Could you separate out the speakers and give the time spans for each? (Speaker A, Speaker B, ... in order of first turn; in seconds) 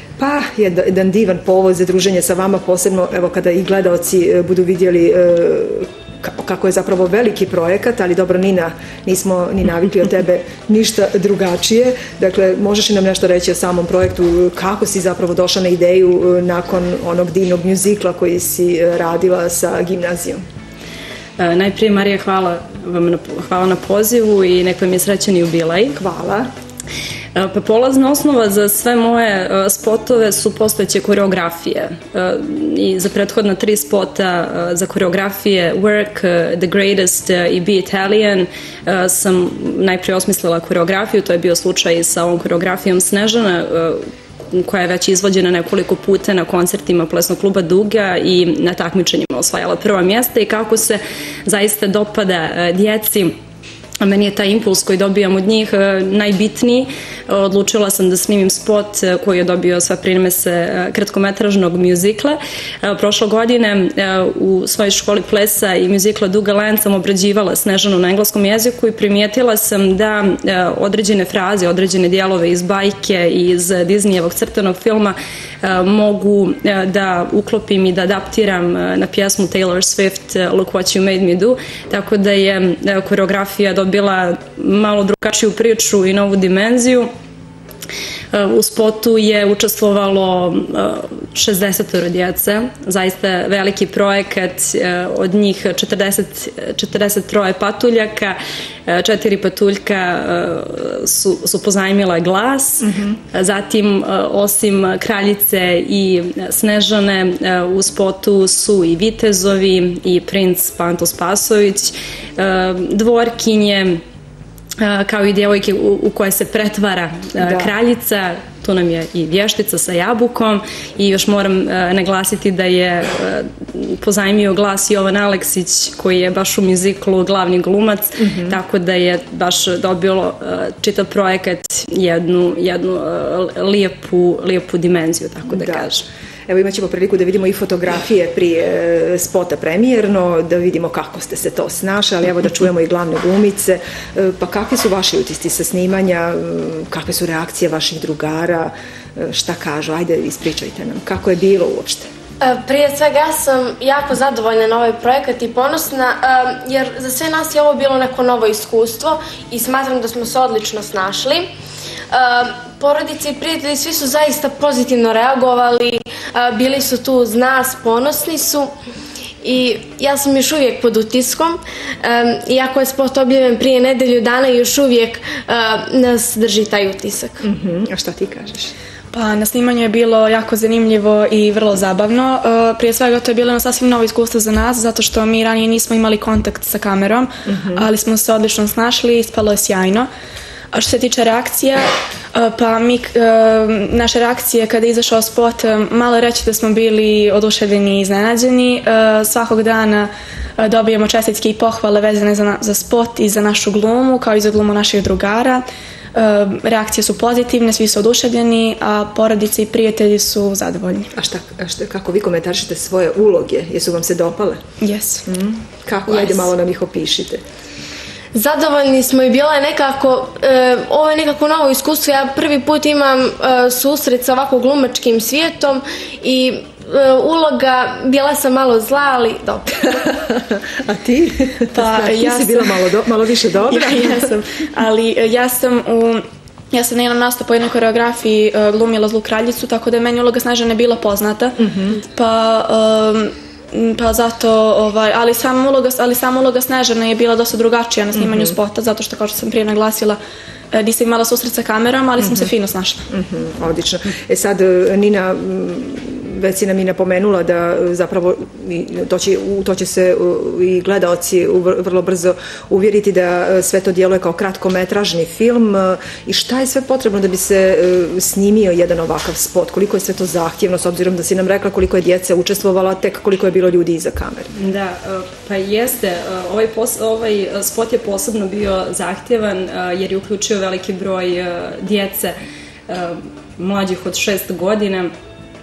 Speaker A: 0.2-20.4, 25.9-26.5, 102.8-103.2, 117.4-117.7, 128.2-128.6, 135.5-135.9, 136.5-152.1, 177.4-178.7, 187.4-187.9, 211.1-214.6, 215.2-217.4, 229.9-234.4, 241.6-242.0, 248.1-248.6, 252.2-252.5, 253.1-274.5
Speaker B: 21.4-25.9, 27.3-53.3, 54.0-87.1, 88.3-114.0, 114.8-136.1, 274.5-282.3, 282.9-285.1
Speaker C: 152.4-161.5, 162.1-168.7, 169.4-177.4, 218.3-229.9
Speaker D: 179.2-190.1, 190.8-191.8, 192.4-200.1, 200.6-205.6, 206.2-211.1, 214.8-215.2, 231.7-232.6, 233.7-241.6, 242.1-250.2, 250.7-253.0